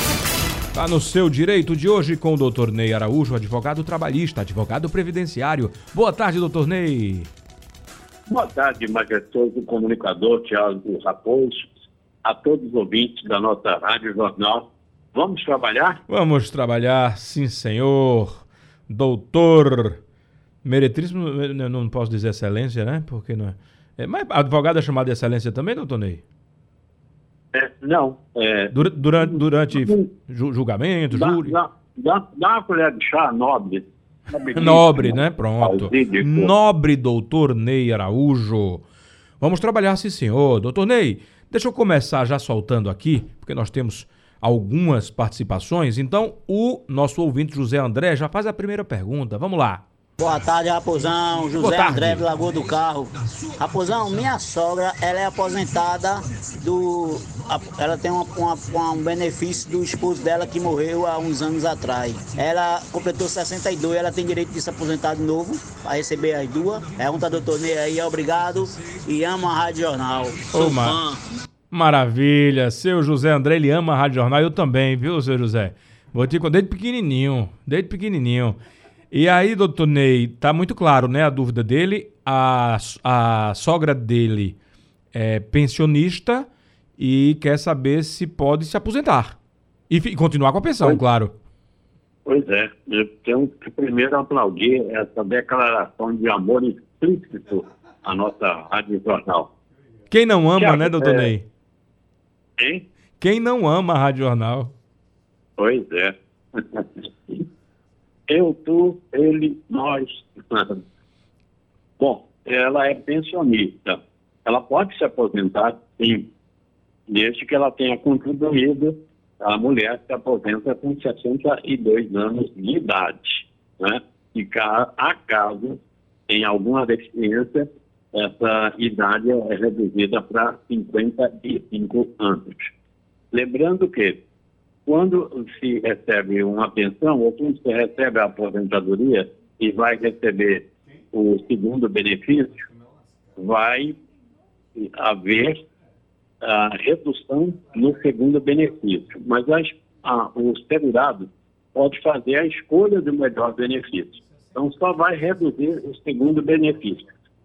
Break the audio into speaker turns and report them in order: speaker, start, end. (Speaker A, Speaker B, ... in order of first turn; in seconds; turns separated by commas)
Speaker A: 0.7-7.3, Speaker B: 8.3-11.7, Speaker B: 12.2-16.0, Speaker A: 16.1-20.0, Speaker A: 20.6-26.2, Speaker B: 27.5-30.1, Speaker A: 28.7-31.6, Speaker B: 31.1-36.5, Speaker A: 34.5-38.8, Speaker A: 39.4-49.8, Speaker C: 50.2-71.2, Speaker A: 51.6-52.2, Speaker A: 70.5-71.0, Speaker A: 71.7-78.6, Speaker A: 79.1-84.6, Speaker A: 85.1-89.4, Speaker A: 89.9-91.3, Speaker B: 92.2-99.5, Speaker A: 100.1-101.5, Speaker B: 100.6-101.3, Speaker B: 102.6-102.8, Speaker A: 103.2-104.7, Speaker B: 105.6-107.4, Speaker B: 108.3-110.8, Speaker B: 112.0-116.3, Speaker B: 117.1-132.7, Speaker B: 133.3-134.2, Speaker B: 134.8-142.6, Speaker B: 143.4-143.9, Speaker B: 144.8-145.6, Speaker B: 146.4-157.0